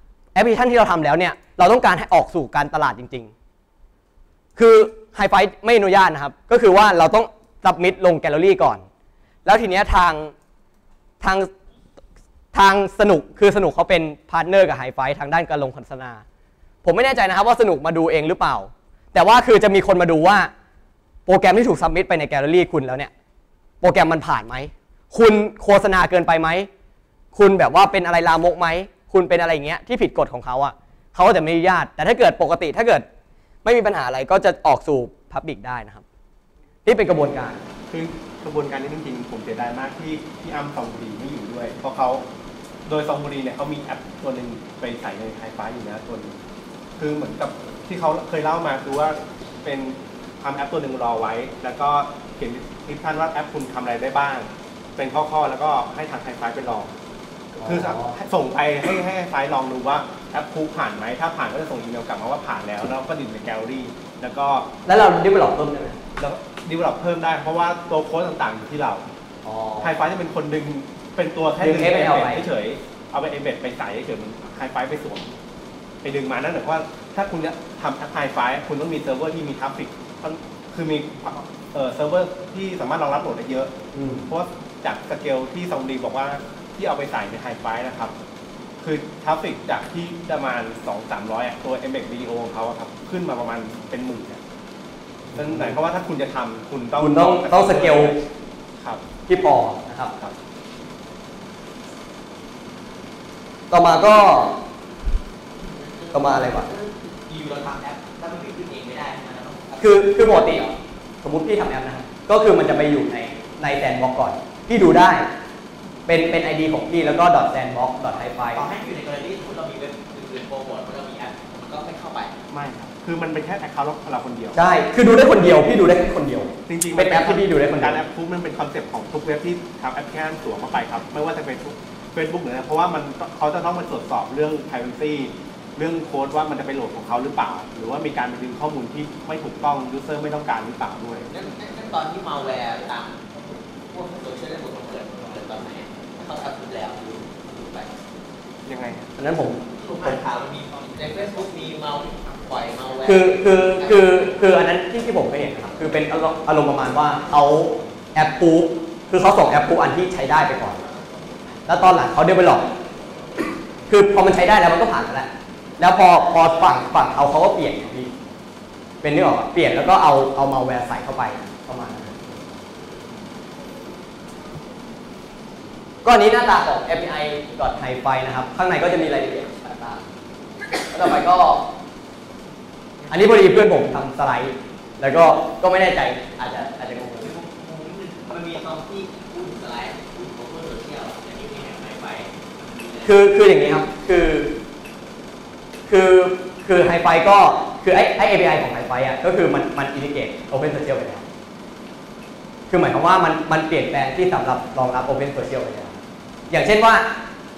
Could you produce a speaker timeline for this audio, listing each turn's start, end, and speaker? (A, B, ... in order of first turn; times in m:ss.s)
0:00.4-0:03.3 A
0:04.6-0:08.8 A
0:09.4-0:10.3 A
0:11.2-0:11.5 A
0:12.5-0:16.2 A
0:16.8-0:20.5 A
0:21.3-0:23.1 A
0:23.8-0:26.7 A
0:27.3-0:33.0 A
0:33.6-0:36.0 A
0:36.8-0:37.6 A
0:37.9-0:42.2 B
0:42.9-0:46.4 B
0:47.0-0:56.9 B
0:57.5-1:04.7 B
0:57.6-0:58.2 A
1:04.9-1:06.0 A
1:06.2-1:09.0 B
1:09.4-1:09.9 A
1:09.8-1:15.3 B
1:11.6-1:12.4 A
1:16.0-1:23.7 B
1:23.9-1:24.3 A
1:24.3-1:28.2 B
1:28.8-1:34.4 B
1:35.3-1:35.8 A
1:35.4-1:38.2 B
1:37.0-1:38.2 A
1:38.8-1:39.0 B
1:39.3-1:40.1 A
1:43.7-1:44.5 A
1:45.6-1:50.8 C
1:46.1-1:46.7 A
1:49.8-1:50.6 A
1:51.2-1:55.3 A
1:56.1-1:58.6 A
1:58.5-2:02.4 C
2:02.5-2:04.6 B
2:04.6-2:08.0 A
2:06.7-2:21.3 B
2:21.3-2:23.3 C
2:23.9-2:27.9 C
2:28.7-2:29.1 B
2:29.2-2:30.2 A
2:29.7-2:34.4 C
2:33.0-2:40.8 A
2:40.9-2:41.4 C
2:41.7-2:42.6 A
2:43.9-2:48.1 A
2:49.0-2:52.1 A
2:56.0-3:00.0 A
3:00.8-3:01.6 A
3:03.0-3:03.5 C
3:03.1-3:07.4 A
3:07.1-3:13.2 C
3:13.0-3:14.5 A
3:15.9-3:21.2 A
3:22.7-3:26.0 A
3:26.5-3:27.1 A